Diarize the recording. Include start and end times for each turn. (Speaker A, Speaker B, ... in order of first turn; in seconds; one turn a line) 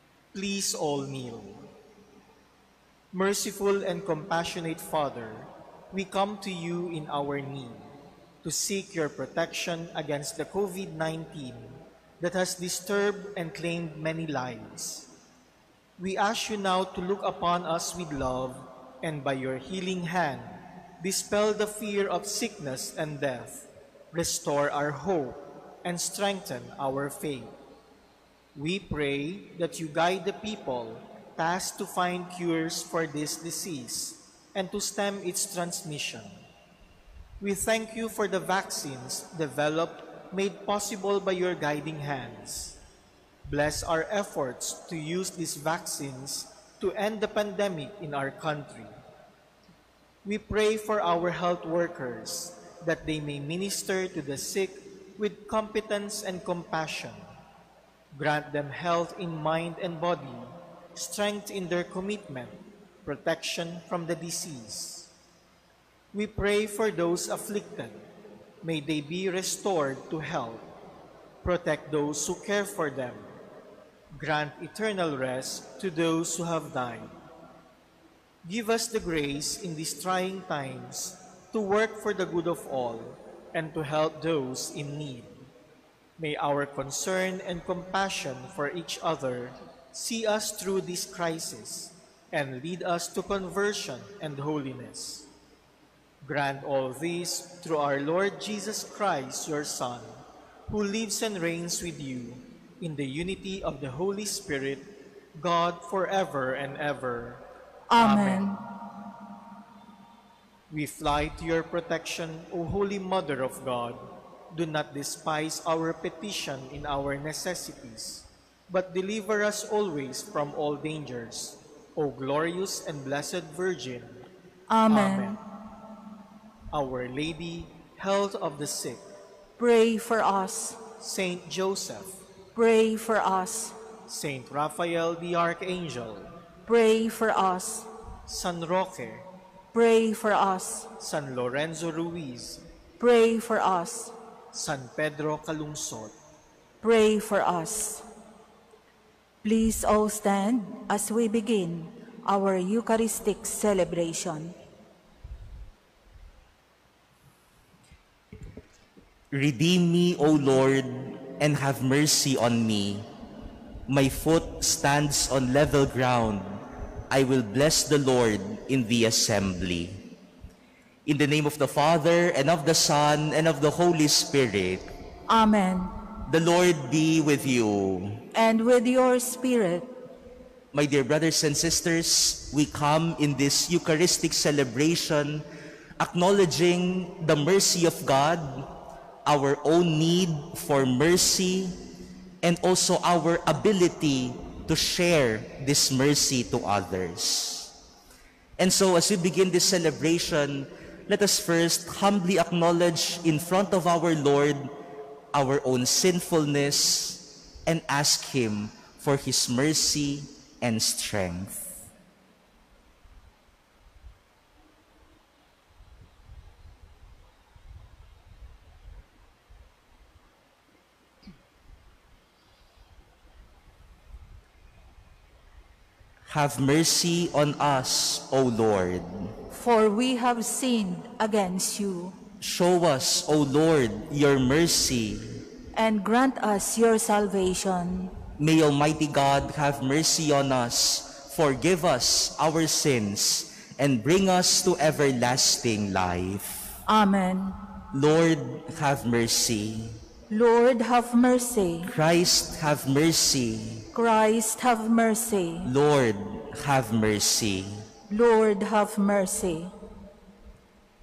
Speaker A: 0.3-1.6
Speaker A: 3.1-7.9
Speaker A: 8.4-15.1
Speaker A: 16.0-27.5
Speaker A: 28.6-36.4
Speaker A: 37.4-42.8
Speaker A: 43.5-49.0
Speaker A: 50.2-57.3
Speaker A: 58.1-65.1
Speaker A: 66.1-68.1
Speaker A: 68.6-70.7
Speaker A: 71.4-73.3
Speaker A: 74.2-77.1
Speaker A: 78.4-85.4
Speaker A: 86.2-95.3
Speaker A: 96.2-104.8
Speaker A: 105.4-107.4
Speaker B: 107.9-108.6
Speaker A: 108.0-108.5
Speaker A: 110.7-124.2
Speaker B: 124.7-125.4
Speaker A: 124.9-125.4
Speaker A: 126.7-129.0
Speaker B: 129.6-130.8
Speaker A: 131.0-132.2
Speaker B: 132.5-133.8
Speaker A: 134.1-136.3
Speaker B: 136.7-137.9
Speaker A: 138.3-139.3
Speaker B: 139.7-140.9
Speaker A: 141.0-142.6
Speaker B: 143.0-144.1
Speaker A: 144.5-146.1
Speaker B: 146.8-148.0
Speaker B: 149.4-154.5
Speaker C: 159.3-163.1
Speaker C: 163.9-170.0
Speaker C: 171.1-174.9
Speaker B: 175.3-175.9
Speaker C: 176.3-178.2
Speaker B: 178.3-179.9
Speaker C: 180.7-185.4
Speaker C: 186.0-188.7
Speaker C: 189.2-191.8
Speaker C: 192.4-197.7
Speaker C: 198.6-204.7
Speaker C: 205.3-211.8
Speaker C: 226.3-229.3
Speaker B: 229.5-232.2
Speaker C: 232.4-235.3
Speaker B: 235.7-238.1
Speaker C: 238.4-246.8
Speaker B: 246.9-247.6
Speaker C: 247.9-250.0
Speaker B: 250.3-251.9
Speaker C: 251.8-253.8
Speaker B: 253.9-255.7
Speaker C: 255.6-257.8
Speaker B: 258.1-259.7